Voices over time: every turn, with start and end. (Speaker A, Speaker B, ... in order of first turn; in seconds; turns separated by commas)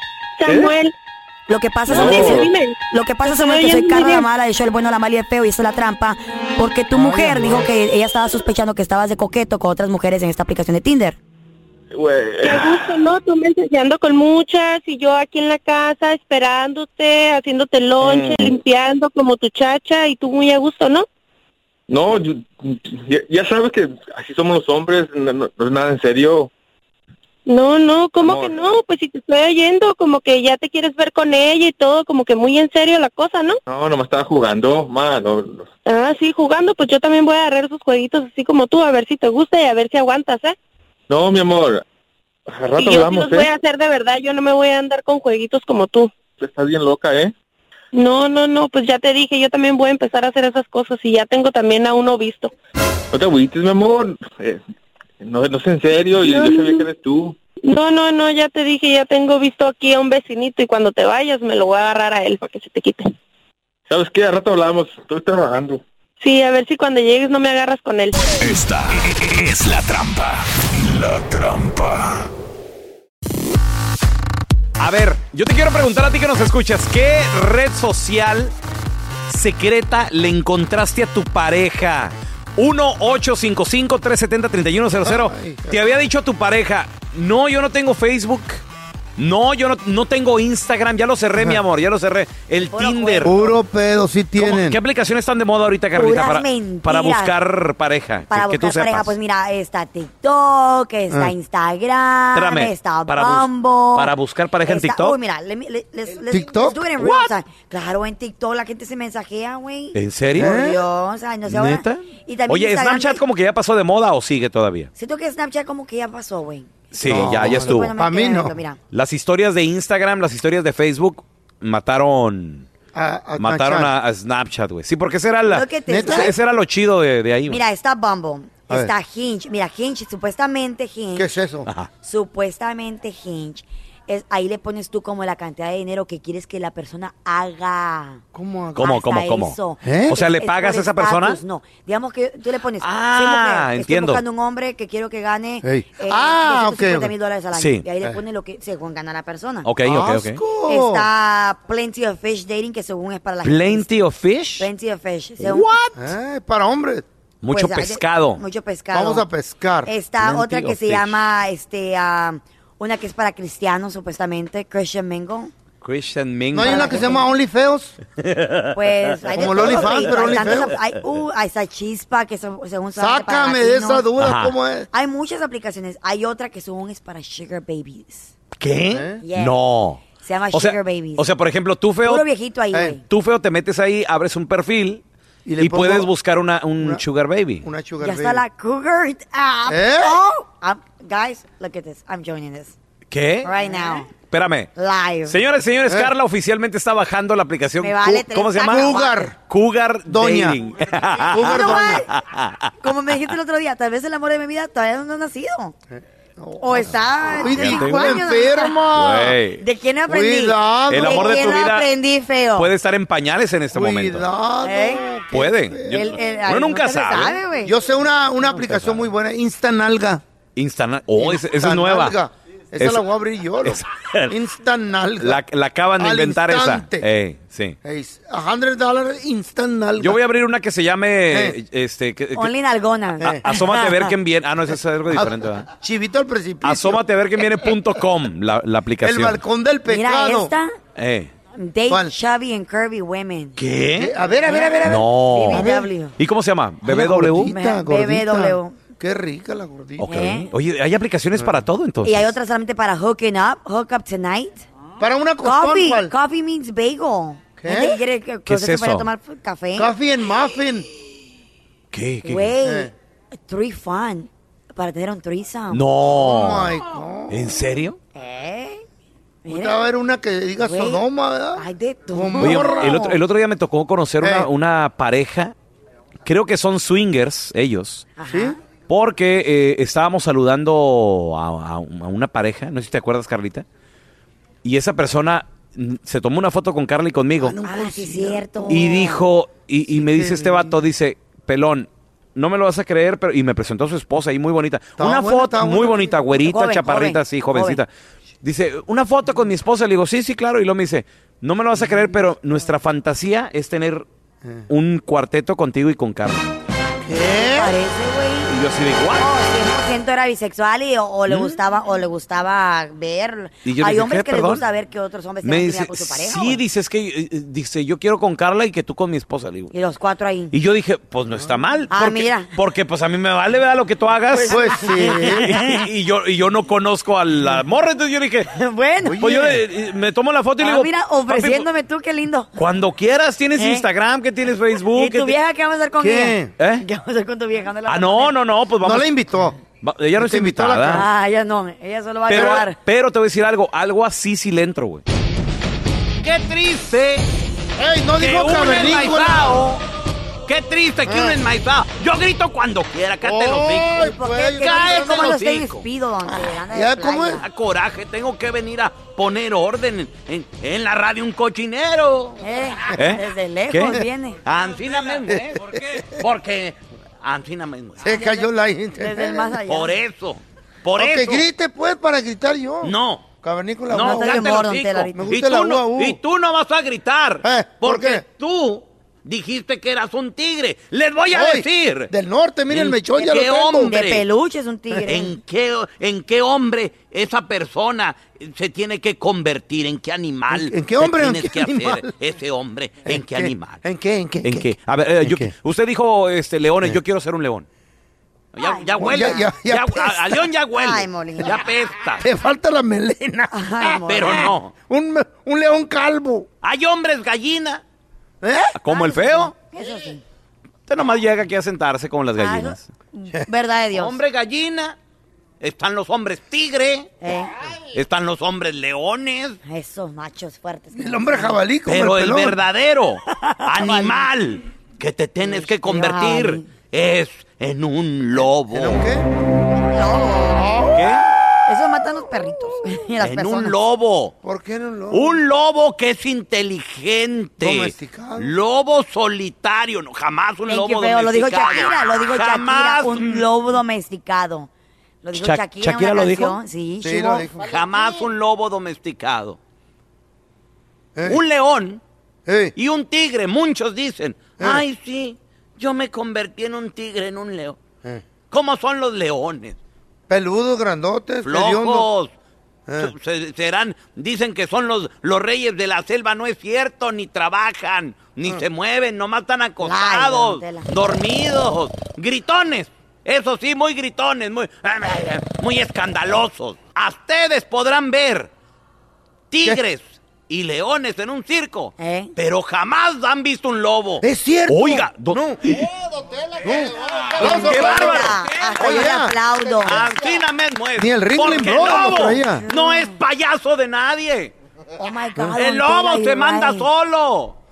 Speaker A: 0.4-0.9, Speaker B: 0.5-0.7, Speaker C: 1.5-11.2, Speaker A: 1.9-4.3, Speaker B: 1.9-2.5, Speaker D: 7.0-7.6, Speaker B: 11.9-12.9, Speaker A: 12.4-21.1, Speaker B: 18.0-18.6, Speaker B: 21.9-26.5, Speaker A: 27.4-33.6, Speaker B: 28.2-28.5, Speaker B: 33.7-35.7, Speaker A: 35.8-40.5, Speaker B: 41.1-41.8, Speaker B: 42.5-43.5, Speaker A: 42.8-46.1, Speaker B: 46.4-47.3, Speaker A: 47.9-52.5, Speaker B: 53.1-54.6, Speaker B: 55.2-57.4, Speaker A: 56.1-56.8, Speaker A: 57.6-63.1, Speaker B: 63.9-65.8, Speaker A: 66.2-68.1, Speaker E: 68.4-70.4, Speaker E: 71.0-72.1, Speaker F: 74.8-78.5, Speaker F: 79.3-88.6, Speaker D: 85.0-85.8, Speaker F: 89.2-93.4, Speaker C: 92.7-93.5, Speaker D: 93.2-94.8, Speaker F: 94.4-99.1, Speaker C: 95.9-97.3, Speaker C: 98.3-104.1, Speaker F: 102.3-105.2, Speaker C: 104.6-113.2, Speaker D: 106.3-107.1, Speaker F: 109.9-110.5, Speaker D: 110.4-110.8, Speaker F: 111.4-114.9, Speaker C: 115.0-118.8, Speaker F: 116.9-117.9, Speaker D: 117.0-118.6, Speaker F: 118.9-122.7, Speaker D: 122.9-123.9, Speaker F: 123.4-127.6, Speaker C: 125.5-126.3, Speaker D: 125.9-126.3, Speaker C: 127.5-131.3, Speaker D: 131.1-131.7, Speaker C: 132.0-138.2, Speaker D: 138.3-138.9, Speaker F: 138.7-139.6, Speaker C: 138.8-149.7, Speaker D: 139.8-140.2, Speaker F: 140.1-141.4, Speaker F: 142.8-144.2, Speaker D: 145.6-147.1, Speaker F: 147.5-147.8, Speaker F: 149.6-150.4, Speaker D: 149.8-151.1, Speaker C: 150.7-153.9, Speaker F: 153.4-154.7, Speaker C: 154.6-155.7, Speaker F: 155.4-156.0, Speaker D: 155.9-157.0, Speaker F: 157.4-158.4, Speaker C: 157.5-159.2, Speaker D: 158.9-159.9, Speaker C: 159.8-165.5, Speaker F: 160.2-161.2, Speaker F: 165.8-167.2, Speaker D: 166.5-167.9, Speaker C: 166.6-167.3, Speaker F: 168.2-170.7, Speaker C: 168.7-174.1, Speaker D: 169.3-170.8, Speaker D: 172.9-174.9, Speaker F: 174.2-174.5, Speaker C: 174.9-178.3, Speaker F: 178.6-182.2, Speaker D: 178.9-179.2, Speaker C: 179.2-179.6, Speaker C: 180.2-181.3, Speaker C: 182.0-183.0, Speaker D: 182.7-183.0, Speaker F: 183.1-185.0, Speaker D: 185.4-186.1, Speaker F: 185.6-187.7, Speaker D: 187.6-188.4, Speaker C: 188.0-192.7, Speaker D: 189.7-190.2, Speaker F: 193.1-193.5, Speaker C: 193.4-194.1, Speaker F: 194.1-194.7, Speaker C: 194.8-195.4, Speaker F: 195.2-202.7, Speaker D: 195.9-196.1, Speaker C: 197.8-199.3, Speaker D: 198.6-199.3, Speaker D: 200.1-200.6, Speaker C: 201.1-202.1, Speaker D: 201.3-202.1, Speaker C: 202.8-205.7, Speaker D: 205.9-209.3, Speaker C: 206.6-212.7, Speaker F: 207.3-209.6, Speaker D: 210.1-211.6, Speaker F: 210.9-211.9, Speaker F: 212.6-214.3, Speaker D: 213.7-216.2, Speaker C: 214.6-215.0, Speaker F: 215.3-217.4, Speaker C: 215.9-217.7, Speaker D: 217.6-220.2, Speaker F: 218.5-219.1, Speaker F: 220.6-222.2, Speaker D: 221.2-225.4, Speaker F: 222.8-223.0, Speaker F: 223.6-224.3, Speaker F: 225.2-227.8, Speaker D: 226.0-227.1, Speaker D: 227.8-230.2, Speaker F: 230.0-232.5, Speaker D: 231.3-231.6, Speaker C: 232.3-234.1, Speaker F: 233.2-235.7, Speaker D: 235.1-237.0, Speaker F: 236.6-239.4, Speaker D: 239.0-240.5, Speaker C: 239.9-240.8, Speaker F: 240.9-241.3, Speaker C: 241.5-243.6, Speaker D: 241.9-242.1, Speaker F: 243.6-244.1, Speaker D: 243.9-245.9, Speaker C: 244.5-246.1, Speaker F: 244.8-247.5, Speaker D: 246.8-250.1, Speaker C: 247.4-248.8, Speaker F: 250.0-252.3, Speaker C: 250.0-250.5, Speaker C: 252.0-254.6, Speaker D: 255.0-256.1, Speaker C: 255.4-259.9, Speaker D: 257.6-258.0, Speaker F: 258.4-259.1, Speaker D: 259.7-260.9, Speaker F: 261.9-262.5, Speaker C: 262.2-265.8, Speaker D: 262.6-262.9, Speaker F: 265.7-266.8, Speaker D: 266.1-267.5, Speaker F: 267.3-268.0, Speaker C: 268.1-268.8, Speaker C: 269.4-269.8, Speaker D: 269.5-273.1, Speaker C: 270.6-271.0, Speaker C: 271.6-273.2, Speaker F: 272.4-275.5, Speaker D: 274.2-274.5, Speaker F: 276.2-278.1, Speaker C: 278.2-278.6, Speaker D: 278.3-278.6, Speaker F: 278.9-283.6, Speaker F: 284.6-287.6, Speaker D: 287.4-289.1, Speaker C: 287.6-289.2, Speaker F: 288.7-297.9, Speaker D: 289.9-290.8, Speaker D: 295.0-296.2, Speaker C: 296.3-297.8, Speaker F: 298.4-304.1, Speaker F: 304.7-306.4, Speaker D: 307.0-307.8, Speaker C: 307.3-308.5, Speaker F: 308.5-309.3, Speaker C: 309.2-316.6, Speaker F: 311.3-311.6, Speaker F: 313.6-314.6, Speaker F: 315.4-319.7, Speaker C: 319.7-320.5, Speaker F: 320.5-328.5, Speaker C: 321.9-322.5, Speaker C: 324.3-325.8, Speaker D: 324.5-325.5, Speaker C: 328.5-329.3, Speaker D: 329.0-329.6, Speaker F: 329.2-331.7, Speaker C: 330.6-332.5, Speaker F: 332.6-335.4, Speaker C: 333.6-333.8, Speaker C: 334.9-338.4, Speaker D: 336.0-336.5, Speaker F: 336.6-336.8, Speaker F: 337.9-339.1, Speaker D: 338.8-339.6, Speaker F: 339.8-341.0, Speaker D: 340.2-341.1, Speaker C: 340.9-342.8, Speaker F: 342.3-345.0, Speaker F: 346.2-347.2, Speaker D: 347.8-349.6, Speaker F: 348.2-349.8, Speaker F: 350.5-354.0, Speaker D: 351.0-351.4, Speaker D: 353.2-355.4, Speaker C: 353.9-357.4, Speaker F: 354.6-355.8, Speaker D: 356.2-357.4, Speaker F: 357.4-362.4, Speaker C: 362.4-364.4, Speaker F: 362.9-368.1, Speaker D: 365.3-366.2, Speaker D: 368.0-369.6, Speaker C: 368.0-368.5, Speaker C: 369.0-369.9, Speaker F: 369.7-371.4, Speaker D: 370.9-374.6, Speaker F: 372.8-373.2, Speaker F: 373.9-382.1, Speaker C: 374.0-375.2, Speaker D: 375.1-376.2, Speaker D: 377.4-378.2, Speaker D: 381.3-383.9, Speaker F: 382.7-384.2, Speaker C: 383.8-385.4, Speaker F: 385.0-393.8, Speaker D: 390.5-392.1, Speaker D: 393.1-394.7, Speaker F: 394.4-397.6, Speaker D: 395.2-395.5, Speaker F: 398.5-402.2, Speaker C: 398.6-399.4, Speaker D: 399.0-400.5, Speaker C: 400.7-401.6, Speaker D: 402.2-406.5, Speaker C: 403.5-404.5, Speaker F: 404.1-404.7, Speaker F: 406.6-407.8, Speaker D: 408.4-408.8, Speaker F: 408.8-409.6, Speaker C: 408.9-410.2, Speaker F: 410.9-412.9, Speaker C: 412.4-414.2, Speaker F: 413.9-415.0, Speaker F: 415.6-417.1, Speaker C: 417.2-417.5, Speaker F: 417.9-419.6, Speaker C: 419.6-421.6, Speaker D: 420.9-422.6, Speaker F: 421.9-429.0, Speaker C: 423.3-424.3, Speaker C: 425.4-426.7, Speaker D: 428.7-429.3, Speaker C: 429.7-430.9, Speaker D: 430.6-430.9, Speaker F: 430.9-431.3, Speaker C: 431.7-433.8, Speaker F: 433.2-434.3, Speaker D: 434.4-435.4, Speaker F: 435.1-443.4, Speaker D: 437.6-438.5, Speaker C: 440.7-444.7, Speaker C: 445.2-447.5, Speaker F: 445.4-446.6, Speaker D: 447.0-448.1, Speaker F: 447.6-449.6, Speaker D: 451.1-451.4, Speaker F: 451.2-452.0, Speaker D: 452.4-452.7, Speaker F: 452.8-457.8, Speaker F: 458.5-459.8, Speaker D: 460.3-462.1, Speaker F: 461.4-462.3, Speaker D: 462.9-463.1, Speaker F: 463.0-478.5, Speaker C: 469.8-470.9, Speaker F: 479.5-485.9, Speaker C: 482.0-482.3, Speaker D: 484.2-485.6, Speaker D: 486.5-490.1, Speaker F: 487.2-489.1, Speaker C: 487.4-490.0, Speaker F: 489.8-494.5, Speaker D: 491.0-492.6, Speaker C: 492.6-493.2, Speaker C: 495.0-496.9, Speaker F: 495.5-497.6